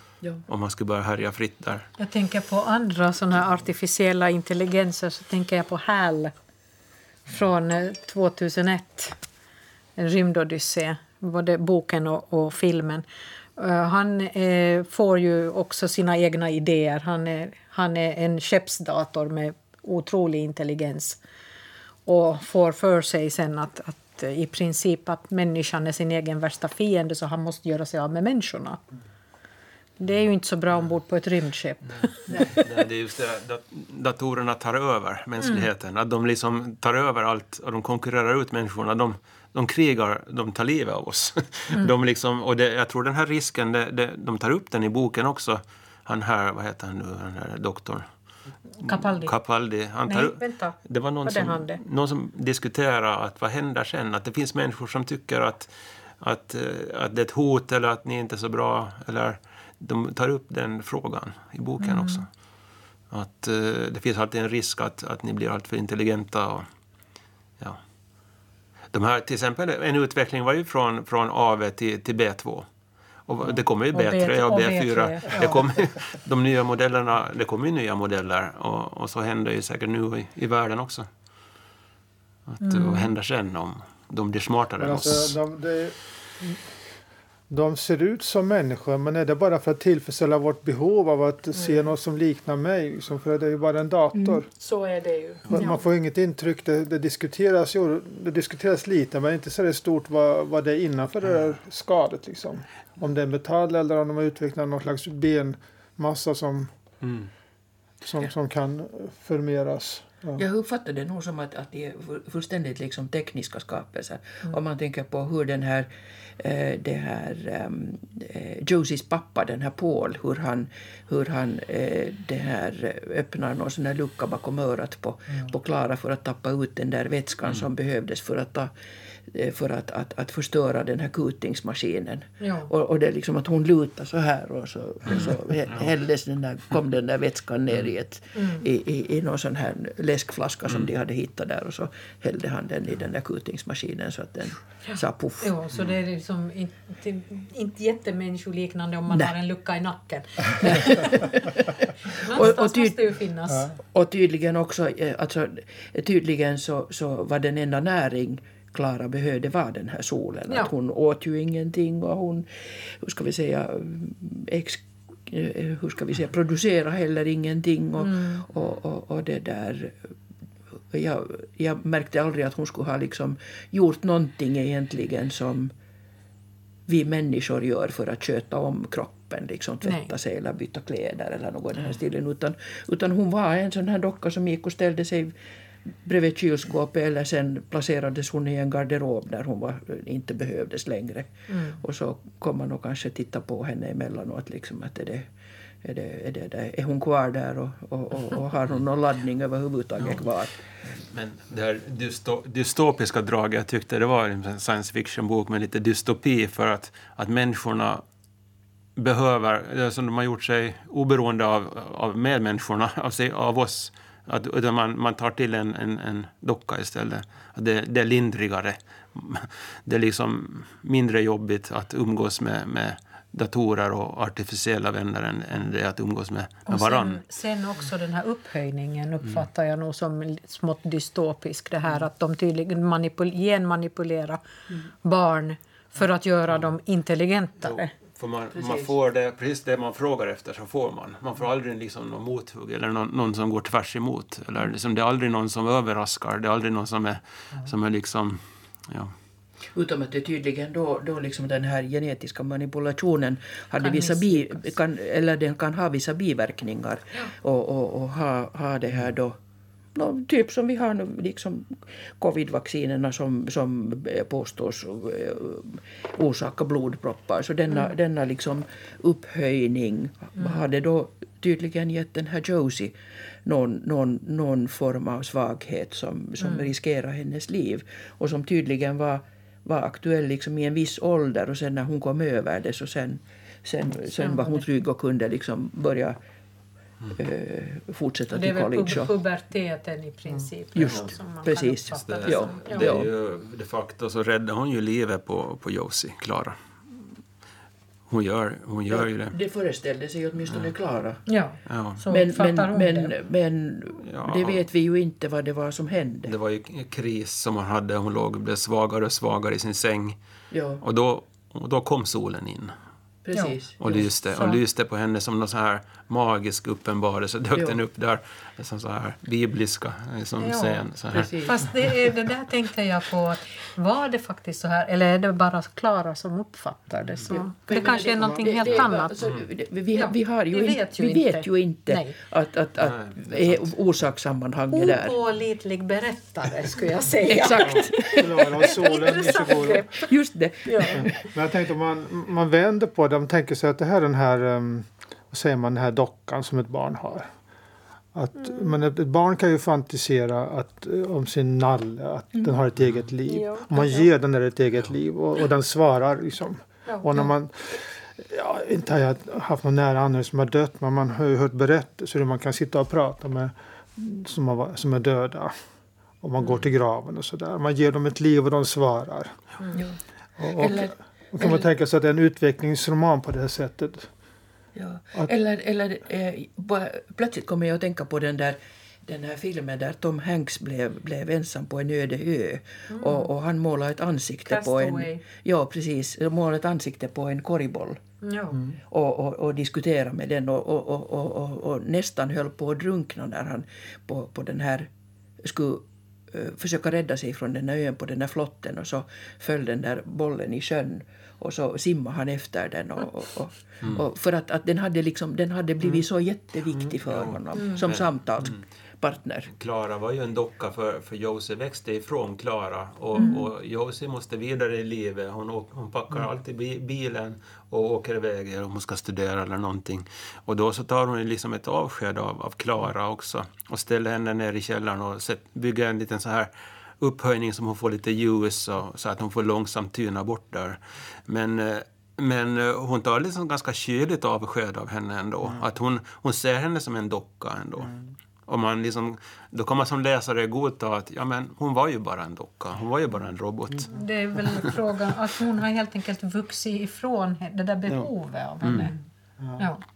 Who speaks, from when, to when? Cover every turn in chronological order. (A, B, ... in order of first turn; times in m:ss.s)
0:00.5-0:01.9 A
0:02.0-0:06.3 B
0:07.3-0:09.2 B
0:10.0-0:13.0 B
0:13.6-0:21.2 B
0:22.0-0:28.8 B
0:30.0-0:32.6 B
0:31.9-0:48.1 A
0:35.4-0:35.7 B
0:48.8-0:49.3 B
0:48.8-1:02.3 A
0:50.0-0:51.8 B
1:01.8-1:02.2 B
1:03.1-1:06.6 A
1:08.9-1:12.6 A
1:13.3-1:21.1 A
1:13.9-1:15.6 B
1:22.5-1:25.3 A
1:22.6-1:23.1 B
1:24.8-1:26.6 C
1:27.5-1:34.5 C
1:31.6-1:31.8 B
1:34.1-1:34.4 D
1:34.6-1:35.8 B
1:35.5-1:46.7 C
1:47.0-1:47.3 A
1:48.0-1:50.4 C
1:50.4-2:08.7 D
2:09.3-2:25.5 D
2:12.4-2:12.7 B
2:15.1-2:15.9 A
2:18.3-2:18.7 B
2:24.9-2:31.4 B
2:30.6-2:33.2 D
2:32.1-2:33.7 B
2:33.5-2:33.7 C
2:33.8-2:50.1 D
2:48.0-2:48.4 B
2:50.9-2:55.7 D
2:56.9-3:05.3 D
2:59.8-3:00.1 B
3:05.9-3:15.3 D
3:11.5-3:11.8 B
3:15.8-3:20.6 D
3:20.8-3:28.0 A
3:29.0-3:47.2 A
3:46.7-3:54.4 B
3:55.0-3:57.9 B
3:57.6-4:09.1 A
3:58.5-3:58.9 D
4:09.7-4:19.3 D
4:13.8-4:14.7 B
4:19.9-4:46.2 D
4:30.4-4:30.6 B
4:36.4-4:36.7 B
4:44.2-4:44.6 B
4:47.1-4:49.1 D
4:48.3-4:52.9 B
4:50.7-4:53.1 D
4:50.8-4:51.1 A
4:52.0-4:57.1 A
4:58.1-4:59.4 A
4:58.9-5:01.2 D
5:01.3-5:03.1 B
5:01.6-5:02.0 A
5:02.1-5:06.3 D
5:04.0-5:04.7 A
5:06.2-5:10.2 A
5:10.5-5:10.8 D
5:10.8-5:12.7 A
5:13.2-5:14.0 D
5:13.8-5:21.3 A
5:14.3-5:14.6 B
5:17.5-5:17.8 D
5:20.4-5:20.8 B
5:21.1-5:21.7 D
5:21.4-5:29.1 B
5:27.3-5:35.2 D
5:28.2-5:28.5 C
5:29.2-5:29.4 A
5:29.9-5:32.2 B
5:32.8-5:33.7 A
5:34.7-5:40.1 B
5:37.2-5:38.2 D
5:38.0-5:39.9 C
5:40.0-5:41.2 D
5:40.6-5:41.1 B
5:40.9-5:47.3 C
5:48.1-6:05.5 C
5:48.4-5:48.7 B
5:52.8-5:53.0 A
5:53.3-5:54.1 B
5:56.8-5:57.3 B
6:06.2-6:09.4 C
6:09.7-6:11.5 D
6:10.4-6:14.1 C
6:14.7-6:28.0 D
6:22.9-6:23.3 B
6:24.4-6:25.2 B
6:28.2-6:28.6 B
6:28.9-6:34.9 D
6:35.4-6:49.5 D
6:46.7-6:48.6 A
6:47.5-6:47.8 B
6:49.5-7:17.9 A
6:53.2-6:53.4 B
7:18.4-7:24.7 A
7:23.9-7:29.0 B
7:28.6-7:28.9 A
7:29.6-7:29.8 B